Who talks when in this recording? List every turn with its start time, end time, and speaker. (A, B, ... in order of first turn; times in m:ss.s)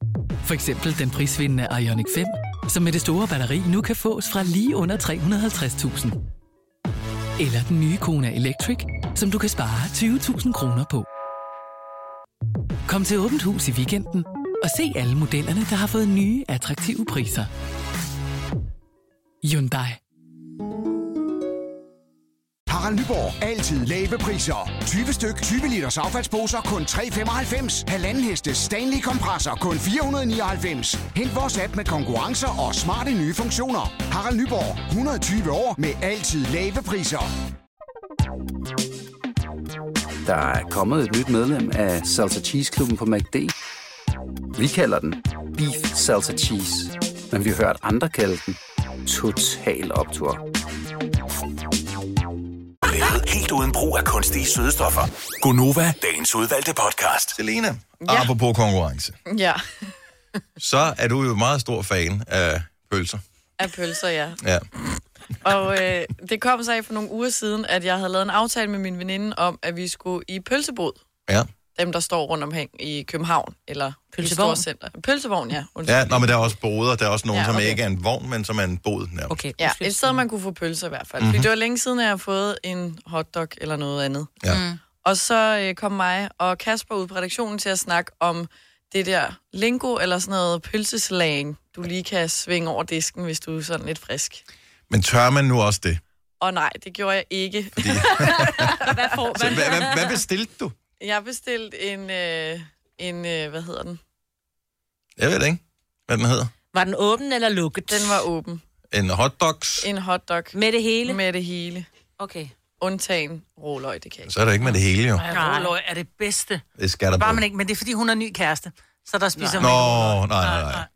0:00.4-0:06.2 A
0:07.4-0:11.0 A
0:12.8-0:17.5 A
0:19.4-0:20.0 A
0:22.7-0:37.3 B
0:40.2-0:43.5 C
0:44.6-0:50.4 C
0:52.8-0:57.4 D
0:57.3-0:59.2 E
0:58.0-0:58.3 F
0:59.3-0:59.9 F
1:00.6-1:03.2 E
1:03.6-1:04.4 F
1:05.4-1:11.0 F
1:11.7-1:16.5 F
1:14.1-1:14.6 G
1:15.8-1:19.4 E
1:17.3-1:17.8 F
1:19.3-1:20.2 G
1:19.6-1:24.3 F
1:21.2-1:21.5 E
1:25.0-1:34.4 F
1:34.9-1:36.0 E
1:36.4-1:39.6 F
1:37.8-1:40.7 E
1:38.0-1:40.2 G
1:41.0-1:44.0 F
1:45.2-1:46.5 E
1:46.7-1:48.2 G
1:47.9-1:48.6 F
1:48.9-1:49.9 E
1:49.8-1:50.5 F
1:50.5-1:51.2 G
1:51.0-1:51.8 F
1:52.2-1:52.5 G
1:52.8-1:54.3 F
1:54.2-1:55.2 E
1:55.2-1:56.6 H
1:55.3-1:55.7 G
1:56.8-1:57.4 E
1:57.1-2:00.8 H
1:59.6-2:00.8 E